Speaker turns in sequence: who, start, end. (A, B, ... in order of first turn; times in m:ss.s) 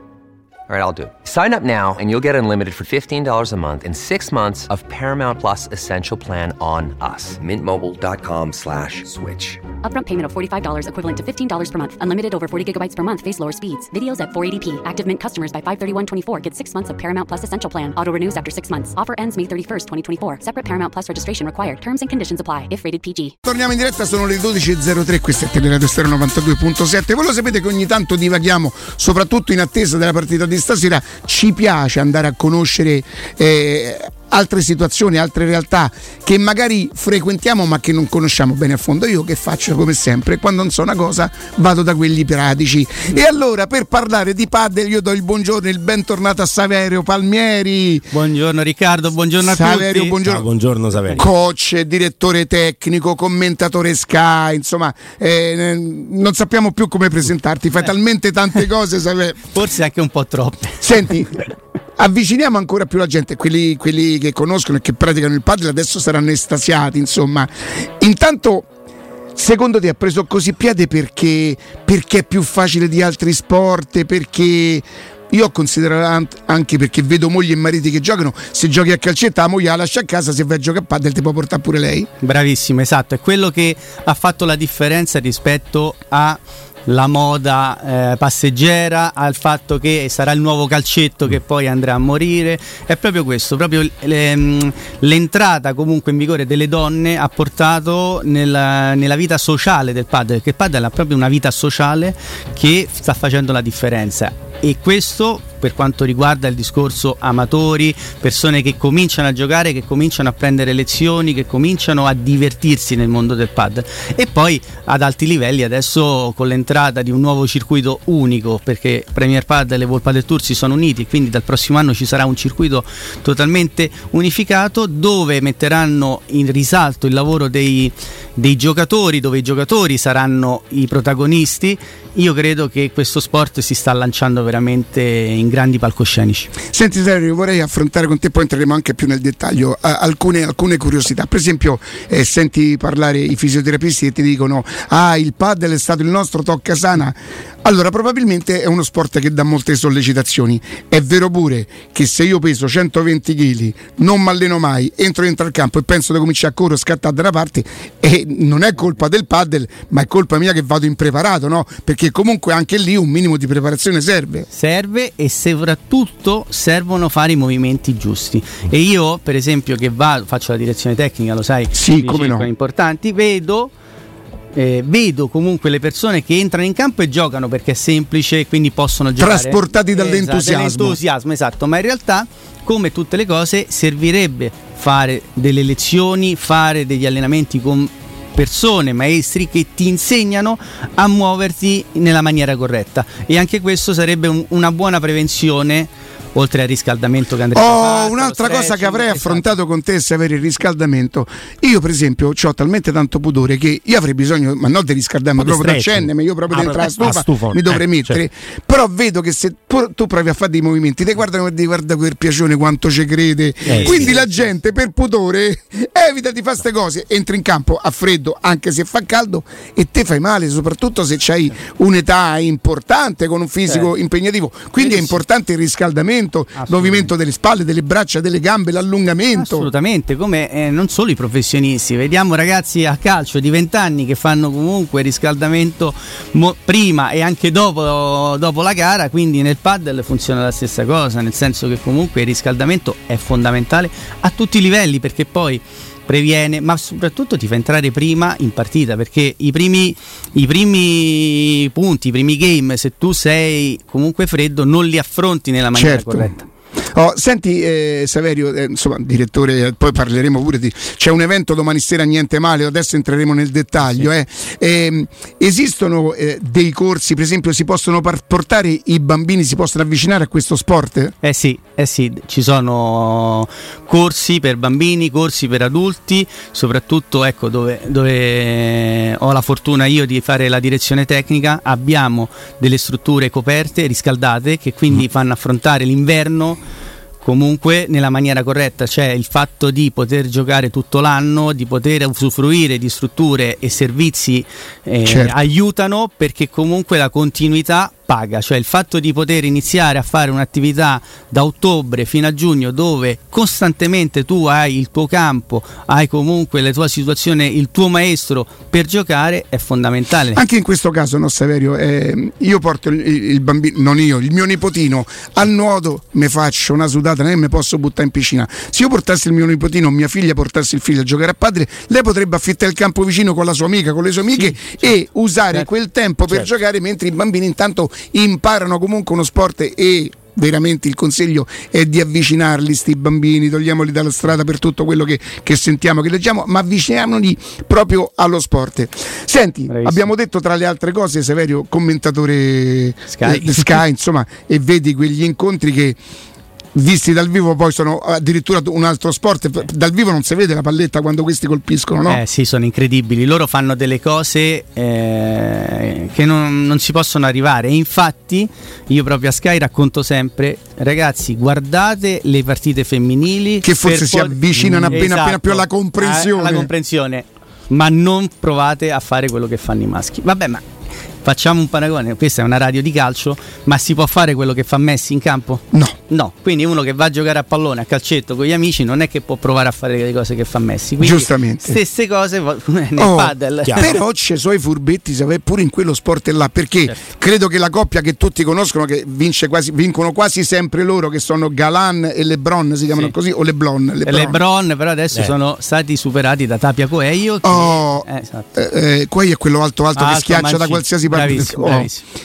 0:00.7-0:09.7 A
0:09.8-0:23.3 B
0:23.4-0:48.1 C
0:48.1-0:50.2 D
0:49.4-0:50.5 C
0:50.2-0:51.2 E
0:51.0-0:51.2 D
0:51.2-0:59.5 C
0:59.5-1:01.0 D
1:00.8-1:01.4 C
1:02.0-1:08.7 C
1:09.4-1:22.1 C
1:22.2-2:16.5 D
2:16.7-2:44.5 C
2:44.5-2:53.7 D
2:51.7-2:52.5 C
2:54.5-3:19.5 D
2:59.2-3:01.0 C
3:17.5-3:49.7 C
3:25.4-3:28.2 E
3:33.7-3:34.2 E
3:33.7-3:34.6 D
3:43.6-3:43.9 D
3:44.8-3:45.2 D
3:46.6-3:47.1 D
3:49.3-4:16.5 D
4:15.7-4:16.4 C
4:16.9-4:31.1 C
4:23.8-4:24.1 D
4:31.2-4:46.6 D
4:47.2-5:10.4 D
4:55.0-4:55.3 C
5:10.3-5:46.0 C
5:24.4-5:24.9 D
5:39.7-5:40.1 D
5:43.1-5:43.8 D
5:46.7-5:52.2 C
5:52.0-6:10.6 D
6:03.6-6:06.7 C
6:04.6-6:05.0 E
6:11.2-6:24.0 D
6:21.0-6:21.8 C
6:23.0-6:34.4 C
6:23.6-6:23.9 E
6:34.0-6:38.5 D
6:37.4-6:41.9 C
6:39.9-6:42.0 D